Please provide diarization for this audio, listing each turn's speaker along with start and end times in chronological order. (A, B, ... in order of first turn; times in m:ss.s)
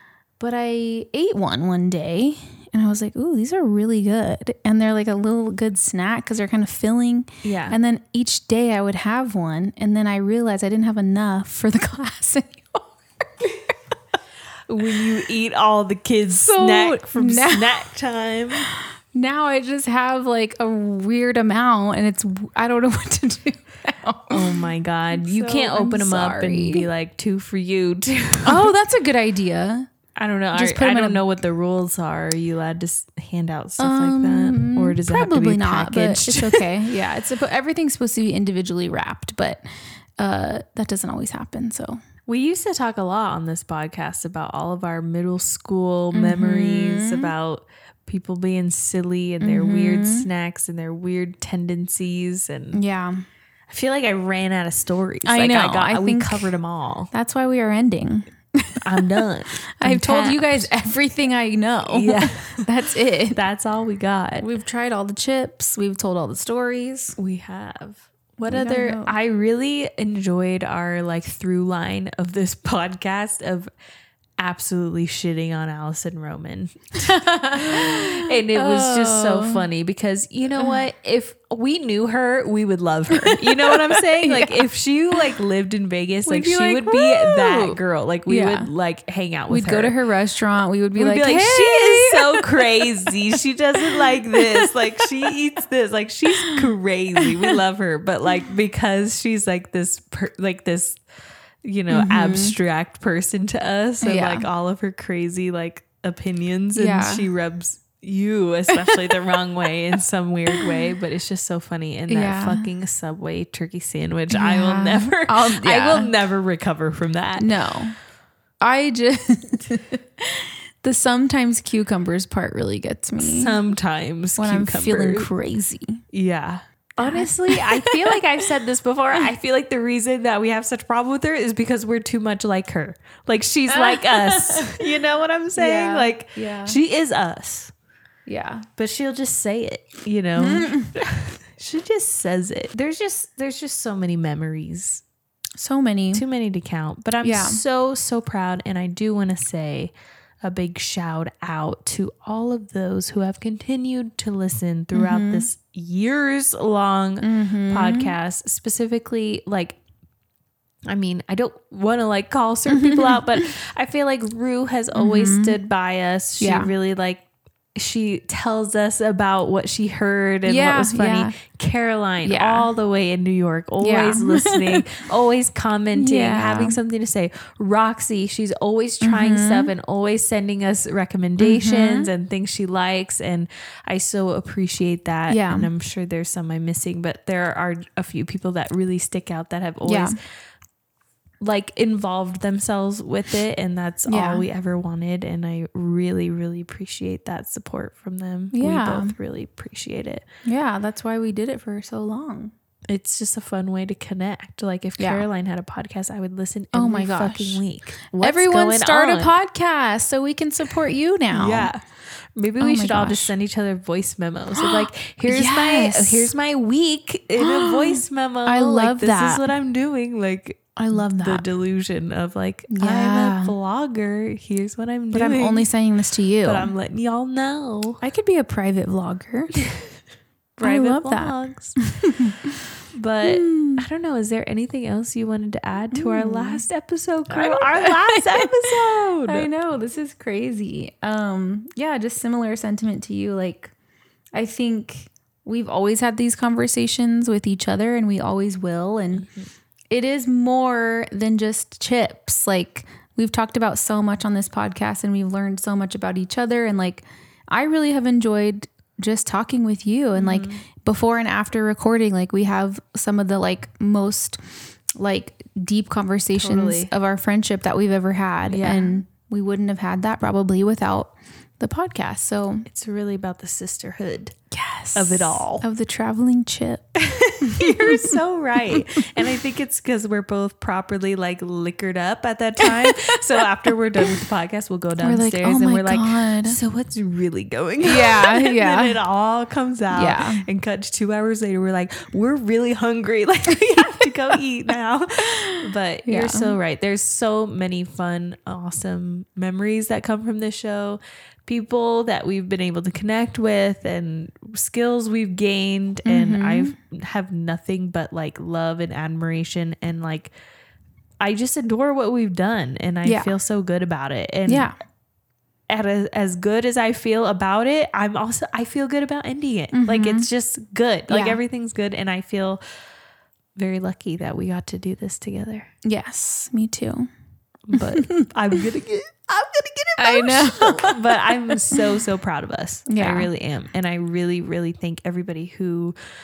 0:00.4-0:12.9 A
0:07.4-0:07.8 B
0:14.7-0:18.7 B
0:16.3-0:17.8 A
0:18.5-0:26.9 A
0:24.3-0:28.7 B
0:28.4-0:29.9 A
0:30.2-0:36.7 B
0:30.5-0:31.2 A
0:33.8-0:39.6 A
0:40.2-0:42.0 A
0:42.2-0:52.8 B
0:46.1-0:47.3 A
0:49.4-0:50.3 A
0:52.7-0:53.2 A
0:53.7-0:57.1 B
0:55.2-0:56.5 A
0:57.1-0:59.1 A
0:58.8-1:00.7 B
0:59.8-1:03.4 A
1:01.8-1:02.7 B
1:03.3-1:04.4 B
1:04.4-1:07.2 A
1:07.2-1:13.7 B
1:08.4-1:09.1 A
1:14.4-1:30.0 B
1:17.0-1:19.6 A
1:23.1-1:24.7 A
1:26.2-1:28.7 A
1:29.5-1:33.2 A
1:30.9-1:41.0 B
1:33.8-1:35.3 A
1:36.3-1:37.6 A
1:41.6-1:57.7 B
1:41.9-1:42.6 A
1:44.0-1:44.5 A
1:46.7-1:47.2 A
1:52.1-1:52.7 A
1:54.3-1:56.1 A
1:57.4-1:58.0 A
1:58.6-2:03.6 A
2:03.2-2:05.3 B
2:04.4-2:06.0 A
2:06.1-2:17.7 B
2:07.0-2:08.4 A
2:13.7-2:14.8 A
2:15.5-2:16.8 A
2:18.2-2:18.7 A
2:18.8-2:25.0 B
2:20.4-2:21.0 A
2:25.6-2:26.2 A
2:26.1-2:39.8 B
2:27.2-2:27.6 A
2:34.9-2:35.5 A
2:37.2-2:38.1 A
2:40.9-2:47.2 B
2:42.7-2:43.5 A
2:44.9-2:45.6 A
2:46.4-2:46.7 A
2:47.8-3:10.1 B
2:50.4-2:51.4 A
2:52.2-2:52.7 A
2:53.8-2:54.9 A
2:56.0-2:56.8 A
2:59.0-2:59.7 A
3:01.4-3:02.1 A
3:05.3-3:05.7 A
3:09.8-3:10.1 A
3:11.4-3:20.2 B
3:14.1-3:14.4 A
3:18.5-3:19.1 A
3:20.4-3:22.5 A
3:22.9-3:29.3 B
3:25.0-3:25.2 A
3:26.7-3:27.6 A
3:28.2-3:31.7 A
3:31.3-3:31.8 B
3:32.4-3:45.7 B
3:32.6-3:33.3 A
3:34.6-3:36.3 A
3:37.4-3:39.5 A
3:40.8-3:41.4 A
3:42.7-3:43.5 A
3:45.1-3:46.7 A
3:46.4-3:48.0 B
3:48.0-3:49.6 A
3:50.6-3:51.8 B
3:50.6-3:52.5 A
3:52.9-3:59.5 B
3:53.2-3:53.8 A
3:55.9-3:56.6 A
3:57.3-3:58.7 A
3:59.2-4:03.7 A
4:04.3-4:09.3 A
4:09.9-4:24.4 A
4:20.1-4:20.6 B
4:25.0-4:32.7 A
4:26.3-4:26.9 B
4:28.5-4:29.0 B
4:32.6-4:34.4 B
4:34.5-4:36.8 A
4:34.9-4:35.6 B
4:37.0-5:10.3 B
4:37.4-4:38.2 A
4:38.7-4:39.1 A
4:42.6-4:43.2 A
4:45.0-4:46.6 A
4:47.8-4:49.0 A
4:49.9-4:50.4 A
4:56.0-4:56.5 A
5:06.0-5:06.7 A
5:11.2-5:14.7 B
5:13.0-5:13.3 A
5:14.5-5:14.8 A
5:15.7-5:22.6 B
5:19.7-5:20.3 A
5:21.1-5:21.4 A
5:23.6-5:25.7 B
5:25.8-5:27.1 A
5:27.7-5:36.0 B
5:27.7-5:28.3 A
5:30.0-5:31.8 A
5:32.9-5:33.3 A